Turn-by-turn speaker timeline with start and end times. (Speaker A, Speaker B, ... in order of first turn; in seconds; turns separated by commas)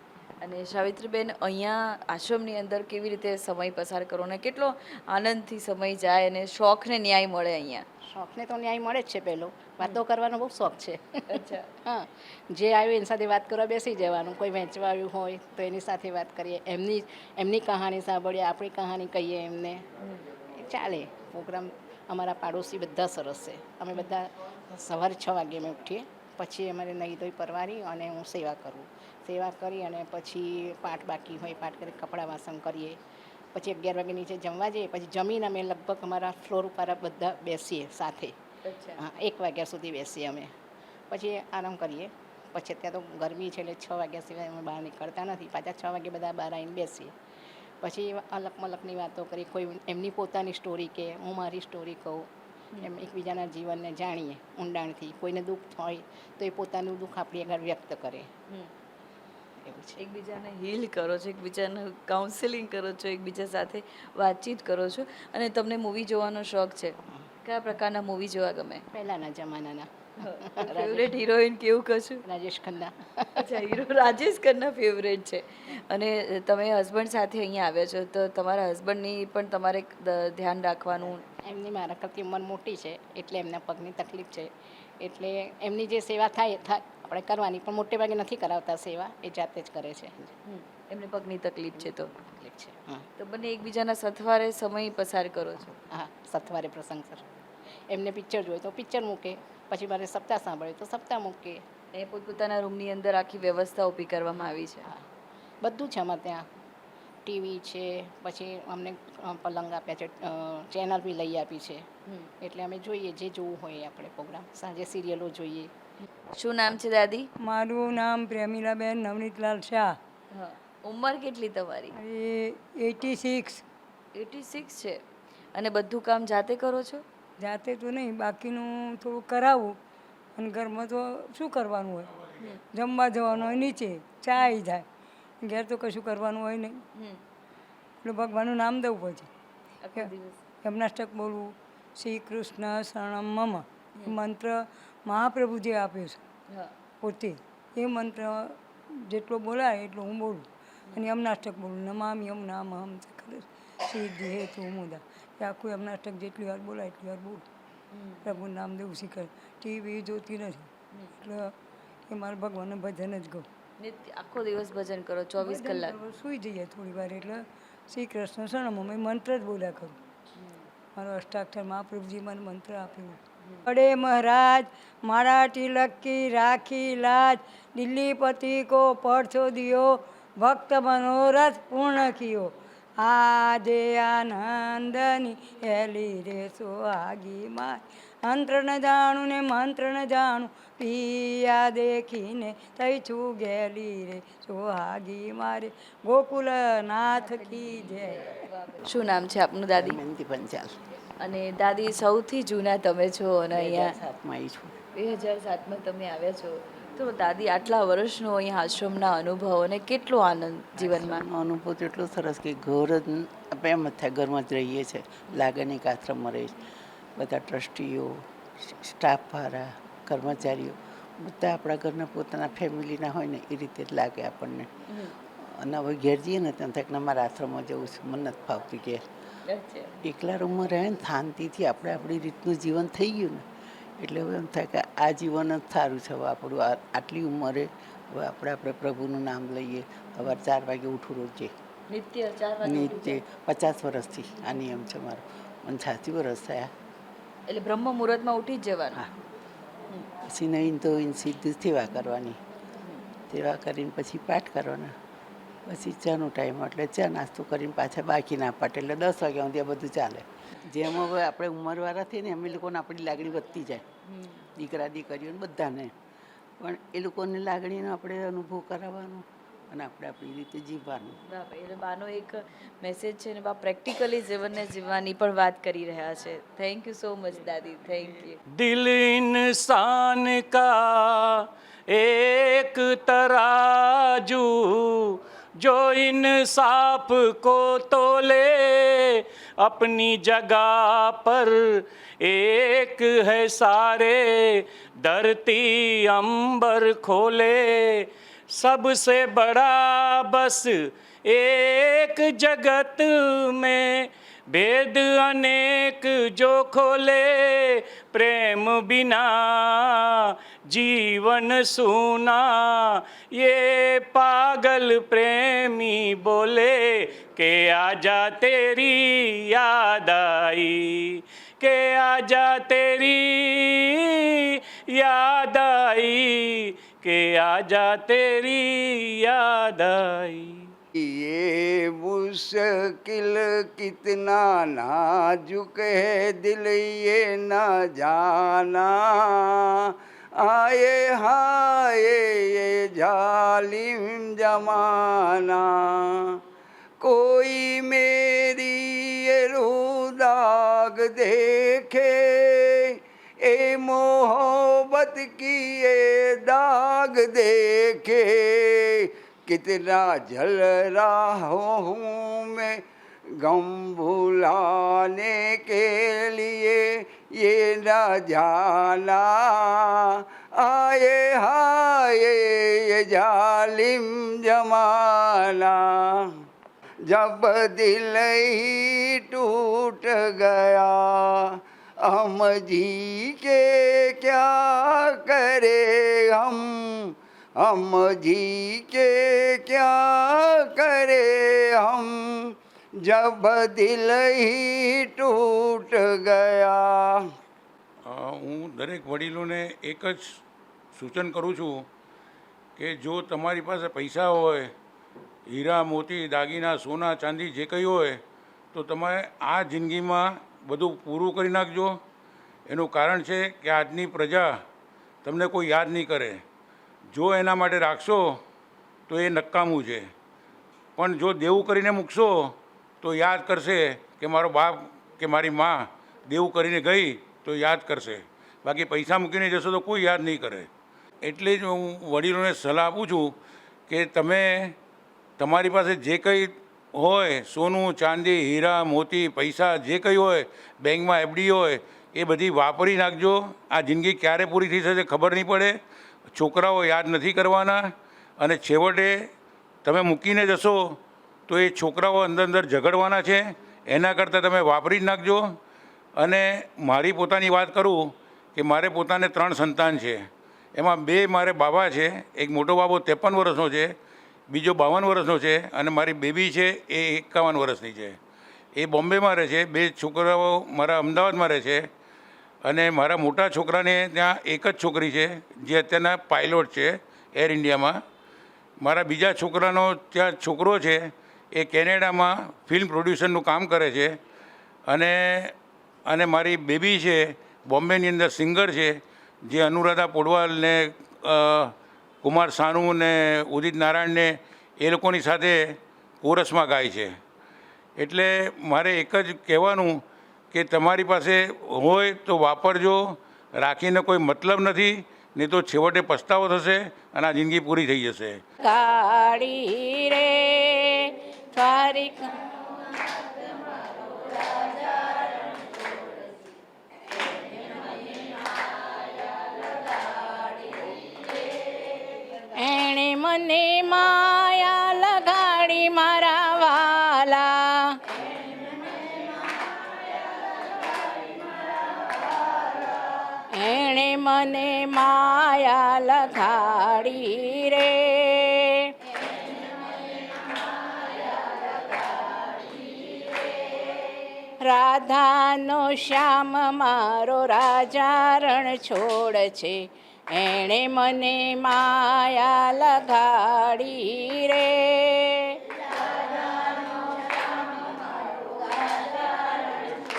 Speaker A: 0.4-7.8, Speaker B: 8.1-19.9, Speaker A: 11.3-11.7, Speaker B: 20.5-33.0, Speaker B: 33.5-38.3, Speaker A: 38.6-39.0, Speaker B: 39.0-40.5, Speaker B: 41.1-47.1, Speaker B: 47.8-52.3, Speaker B: 52.8-58.3, Speaker B: 59.6-60.0, Speaker A: 60.0-68.8, Speaker B: 68.9-71.2, Speaker A: 70.2-72.2, Speaker B: 72.3-73.5, Speaker A: 73.3-81.2, Speaker B: 81.4-90.3, Speaker A: 90.5-92.1, Speaker B: 92.2-93.0, Speaker A: 93.2-95.8, Speaker B: 95.9-97.2, Speaker B: 97.9-101.6, Speaker A: 101.9-104.8, Speaker B: 105.6-106.5, Speaker B: 107.2-111.8, Speaker B: 112.4-115.7, Speaker A: 116.3-117.3, Speaker C: 117.4-120.0, Speaker A: 120.3-121.9, Speaker C: 121.9-123.6, Speaker A: 124.1-125.0, Speaker A: 125.5-127.0, Speaker C: 127.4-129.8, Speaker C: 130.3-132.2, Speaker C: 132.7-134.8, Speaker C: 135.4-136.8, Speaker A: 136.9-137.2, Speaker C: 138.0-139.3, Speaker A: 139.8-140.4, Speaker C: 140.6-146.2, Speaker C: 147.0-148.6, Speaker C: 149.1-157.4, Speaker A: 157.9-158.2, Speaker C: 158.2-161.5, Speaker C: 162.1-163.4, Speaker A: 163.8-166.0, Speaker C: 165.4-170.0, Speaker A: 170.4-170.6, Speaker C: 170.9-198.3, Speaker A: 197.2-200.0, Speaker D: 199.8-200.8, Speaker A: 201.2-203.9, Speaker D: 203.5-204.7, Speaker A: 204.9-211.2, Speaker D: 210.8-216.6, Speaker D: 217.2-224.7, Speaker D: 225.2-229.0, Speaker A: 229.5-229.9, Speaker D: 230.0-233.4, Speaker D: 234.0-241.5, Speaker A: 241.9-243.2, Speaker D: 242.6-246.7, Speaker A: 247.5-249.0, Speaker D: 250.2-252.4, Speaker D: 253.3-254.9, Speaker D: 255.7-263.8, Speaker A: 264.1-264.4, Speaker D: 264.6-265.9, Speaker D: 266.6-271.2, Speaker A: 271.3-278.4, Speaker E: 278.6-330.7, Speaker F: 330.9-346.4, Speaker F: 347.0-362.8, Speaker F: 363.4-376.3, Speaker F: 377.0-381.5, Speaker F: 382.0-397.2, Speaker G: 398.1-400.4, Speaker G: 400.9-401.8, Speaker G: 402.8-404.7, Speaker G: 405.5-408.2, Speaker G: 408.7-412.0, Speaker G: 412.7-414.6, Speaker G: 415.2-416.4, Speaker G: 417.1-418.4, Speaker G: 419.1-420.1, Speaker G: 421.0-430.7, Speaker G: 431.2-433.3, Speaker G: 433.9-434.7, Speaker G: 435.4-445.8, Speaker G: 446.3-449.2, Speaker G: 449.8-451.0, Speaker G: 451.5-455.5, Speaker G: 456.2-463.9, Speaker G: 464.5-468.2, Speaker G: 468.8-471.9, Speaker G: 472.6-478.0, Speaker G: 478.8-484.1, Speaker G: 484.9-485.5, Speaker G: 486.1-488.9, Speaker G: 489.5-497.1, Speaker G: 498.0-500.0, Speaker G: 500.5-508.4, Speaker H: 508.6-512.3, Speaker H: 522.5-528.0, Speaker H: 533.5-538.9, Speaker H: 544.6-555.6